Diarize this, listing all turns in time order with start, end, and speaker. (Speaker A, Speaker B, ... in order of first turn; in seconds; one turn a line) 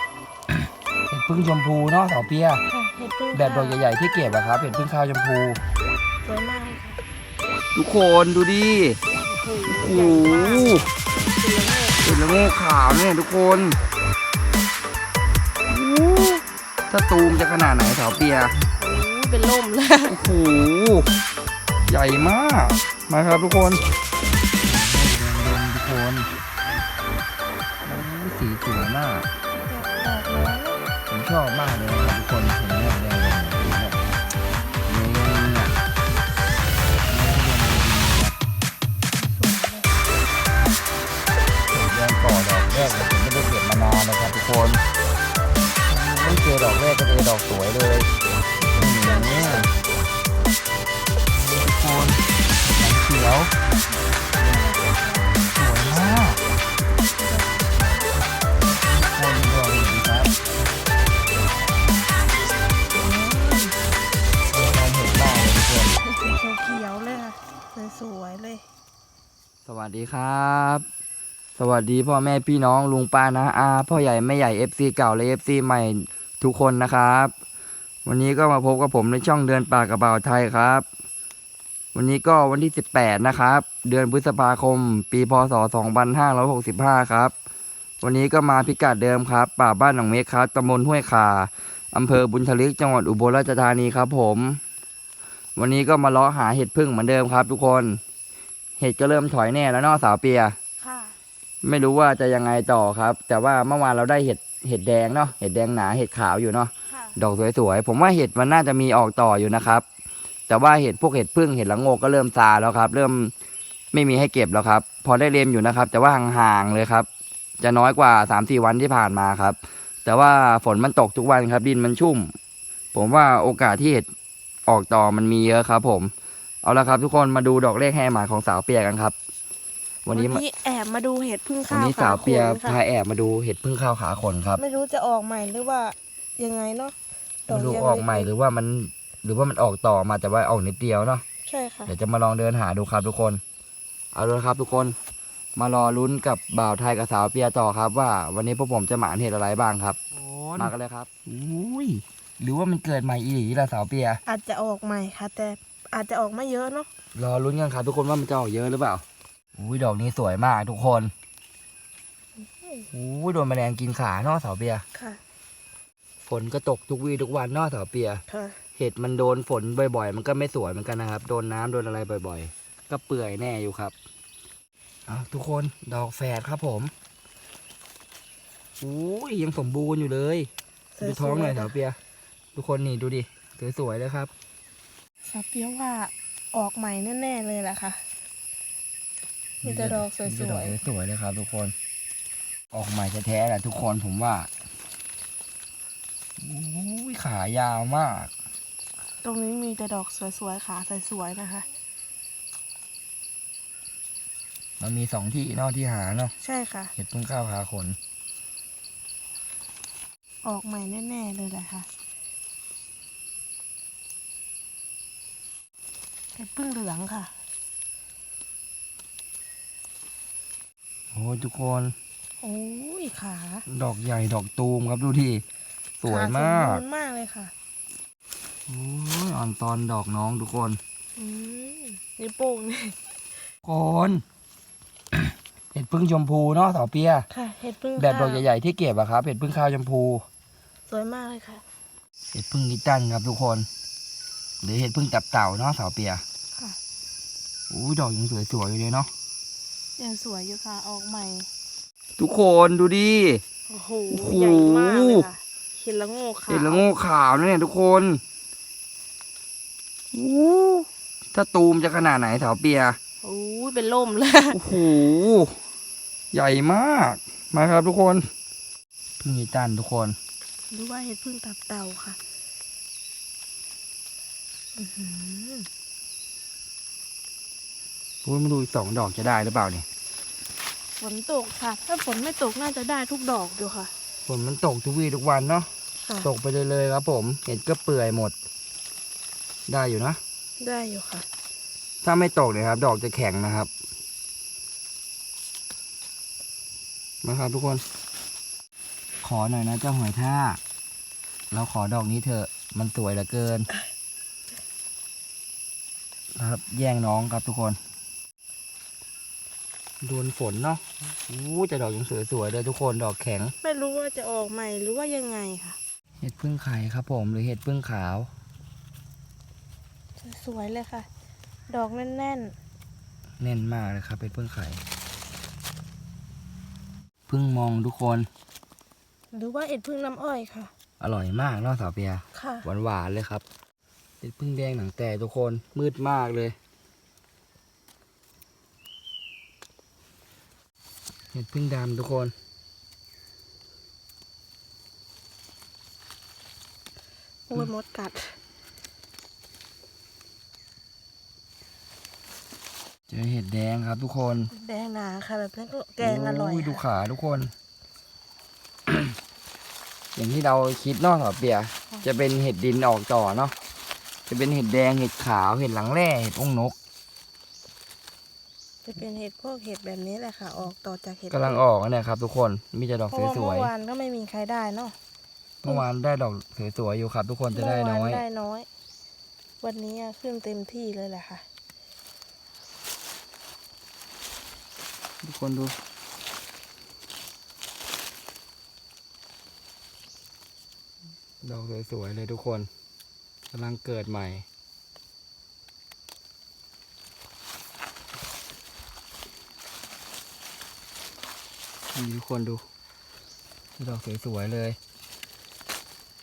Speaker A: 1.1-2.6
Speaker B: 2.7-3.8
Speaker A: 3.3-5.6
Speaker B: 6.2-7.0
Speaker A: 7.7-9.0
Speaker B: 9.2-12.2
Speaker A: 9.7-10.8
Speaker A: 12.0-13.8
Speaker A: 15.7-18.5
Speaker B: 18.8-20.2
Speaker A: 20.1-21.1
Speaker A: 21.9-23.8
Speaker A: 24.6-26.3
Speaker A: 27.8-29.3
Speaker B: 29.5-30.8
Speaker A: 31.1-34.0
Speaker A: 34.9-35.7
Speaker A: 37.1-38.4
Speaker B: 39.1-40.0
Speaker A: 41.7-44.8
Speaker A: 45.9-48.1
Speaker B: 48.6-49.8
Speaker A: 48.8-49.7
Speaker A: 51.3-53.5
Speaker B: 54.2-55.4
Speaker A: 55.5-56.4
Speaker B: 57.1-58.1
Speaker A: 58.9-60.3
Speaker B: 63.0-63.7
Speaker A: 64.5-66.0
Speaker B: 66.0-68.6
Speaker A: 69.7-70.8
Speaker A: 71.6-77.3
Speaker A: 78.0-80.8
Speaker A: 81.9-87.3
Speaker A: 88.0-94.6
Speaker A: 95.5-98.0
Speaker A: 98.8-100.5
Speaker B: 100.8-101.2
Speaker A: 101.6-109.8
Speaker B: 106.9-107.2
Speaker A: 110.5-113.3
Speaker A: 113.9-117.1
Speaker A: 117.6-122.3
Speaker A: 122.9-124.1
Speaker A: 124.7-126.1
Speaker A: 126.6-129.1
Speaker A: 130.0-130.4
Speaker B: 130.1-132.8
Speaker A: 131.7-134.6
Speaker B: 134.6-136.9
Speaker B: 137.5-138.3
Speaker A: 137.5-141.2
Speaker B: 141.4-141.9
Speaker A: 141.9-143.4
Speaker A: 144.1-144.9
Speaker A: 145.6-154.2
Speaker B: 154.2-156.9
Speaker A: 157.1-159.0
Speaker A: 159.5-161.1
Speaker B: 162.4-162.9
Speaker A: 162.9-164.8
Speaker B: 164.9-165.2
Speaker A: 166.2-168.2
Speaker B: 168.3-168.6
Speaker A: 168.8-173.9
Speaker A: 175.1-176.9
Speaker A: 178.8-180.5
Speaker B: 180.9-181.8
Speaker A: 181.0-182.0
Speaker A: 182.5-184.3
Speaker B: 185.2-188.0
Speaker A: 189.6-191.7
Speaker B: 189.6-190.8
Speaker A: 192.7-194.5
Speaker A: 196.4-198.3
Speaker B: 199.2-201.7
Speaker A: 204.8-206.3
Speaker B: 206.4-206.9
Speaker A: 206.9-208.0
Speaker B: 210.4-211.9
Speaker B: 216.3-217.3
Speaker A: 221.1-221.9
Speaker B: 222.4-223.7
Speaker A: 223.7-225.4
Speaker A: 226.0-226.8
Speaker B: 226.1-227.5
Speaker A: 228.7-230.8
Speaker B: 231.2-233.0
Speaker A: 233.6-234.2
Speaker A: 235.7-237.3
Speaker B: 237.3-238.4
Speaker A: 238.0-240.2
Speaker B: 240.9-241.6
Speaker A: 242.3-243.7
Speaker A: 244.6-246.2
Speaker A: 247.7-249.1
Speaker B: 250.0-251.5
Speaker A: 252.2-253.4
Speaker B: 253.7-256.9
Speaker A: 254.1-255.2
Speaker A: 256.5-258.2
Speaker A: 260.1-263.0
Speaker B: 263.2-264.8
Speaker A: 264.5-265.6
Speaker A: 266.3-268.3
Speaker A: 269.2-270.2
Speaker B: 270.7-272.2
Speaker B: 274.7-275.7
Speaker A: 278.2-279.9
Speaker B: 281.0-283.9
Speaker A: 284.3-285.7
Speaker A: 286.2-288.3
Speaker A: 289.7-290.2
Speaker B: 290.6-291.2
Speaker A: 292.0-293.7
Speaker A: 297.2-297.8
Speaker A: 299.2-300.6
Speaker A: 301.5-303.7
Speaker A: 306.3-307.8
Speaker A: 310.0-313.5
Speaker B: 313.6-315.8
Speaker A: 316.2-318.3
Speaker B: 320.2-321.1
Speaker B: 321.7-322.6
Speaker A: 323.4-324.8
Speaker A: 327.3-328.3
Speaker B: 329.3-330.7
Speaker A: 331.0-333.4
Speaker B: 332.3-332.7
Speaker A: 334.2-336.6
Speaker A: 341.3-342.3
Speaker B: 347.5-348.4
Speaker A: 353.1-354.5
Speaker B: 354.5-356.8
Speaker A: 356.0-357.5
Speaker A: 360.1-363.5
Speaker A: 364.3-366.8
Speaker B: 368.8-371.6
Speaker A: 371.3-373.7
Speaker B: 373.1-374.9
Speaker A: 375.6-378.2
Speaker B: 377.5-378.7
Speaker B: 379.6-381.4
Speaker A: 385.2-385.7
Speaker A: 391.4-392.7
Speaker A: 393.5-394.4
Speaker A: 401.9-402.6
Speaker A: 403.8-404.8